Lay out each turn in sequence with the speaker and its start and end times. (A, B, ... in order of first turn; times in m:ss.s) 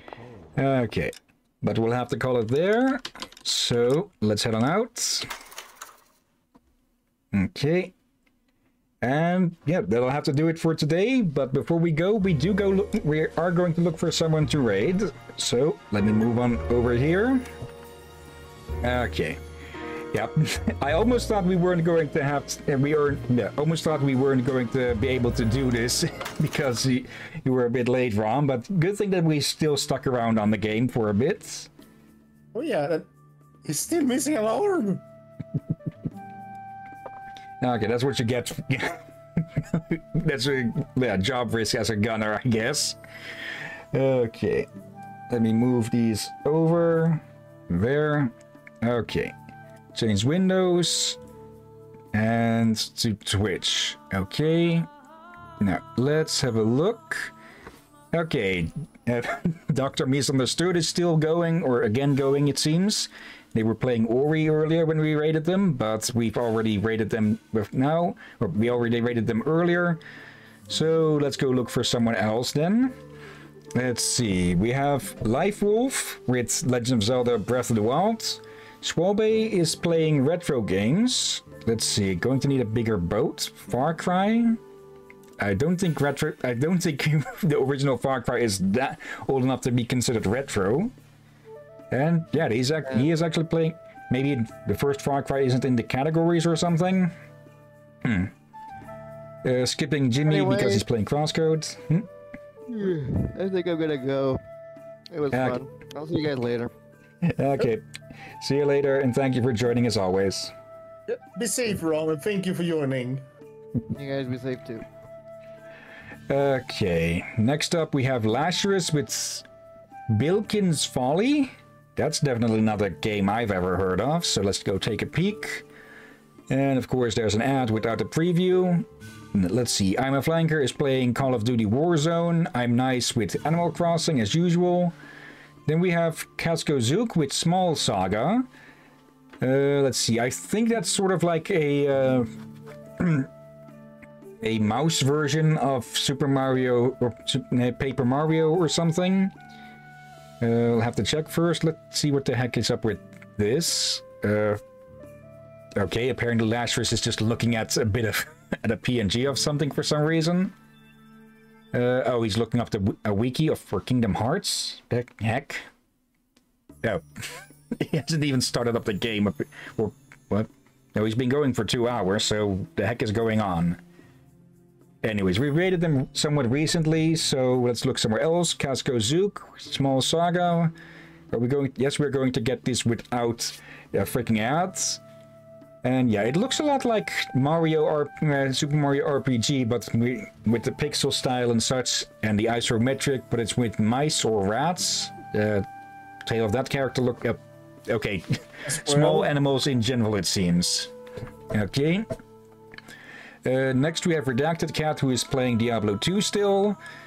0:00.6-0:05.3 A
0:07.3-0:07.9 A
0:09.0-0:17.4 A
0:18.8-0:19.4 A
0:20.1-0:31.7 A
0:32.5-0:33.1 B
0:33.6-0:35.0 B
0:37.6-0:43.0 A
0:43.9-0:44.7 A
0:45.3-0:49.3 A
0:49.9-0:51.2 A
0:52.1-0:54.9 A
0:55.6-0:57.3 A
0:58.1-1:10.0 A
1:10.7-1:12.9 A
1:13.7-1:24.6 A
1:25.4-1:30.9 A
1:31.9-1:37.1 A
1:38.0-1:38.3 A
1:39.4-1:42.1 A
1:40.2-1:40.8 C
1:42.7-1:44.4 C
1:45.1-1:46.7 C
1:45.3-1:45.6 A
1:47.2-1:47.9 A
1:48.4-1:50.5 A
1:51.1-1:53.2 B
1:53.9-1:54.8 C
1:56.3-1:59.4 A
2:00.1-2:05.6 A
2:06.5-2:14.9 A
2:15.7-2:18.5 A
2:19.4-2:22.3 A
2:23.0-2:23.3 A
2:24.4-2:29.3 A
2:30.4-2:34.6 A
2:35.8-2:40.5 A
2:41.7-2:45.7 A
2:47.7-2:53.8 A
2:55.0-3:00.7 A
3:01.3-3:05.0 A
3:05.8-3:15.6 A
3:16.2-3:20.9 A
3:18.7-3:19.3 B
3:21.5-3:22.1 A
3:23.4-3:26.8 A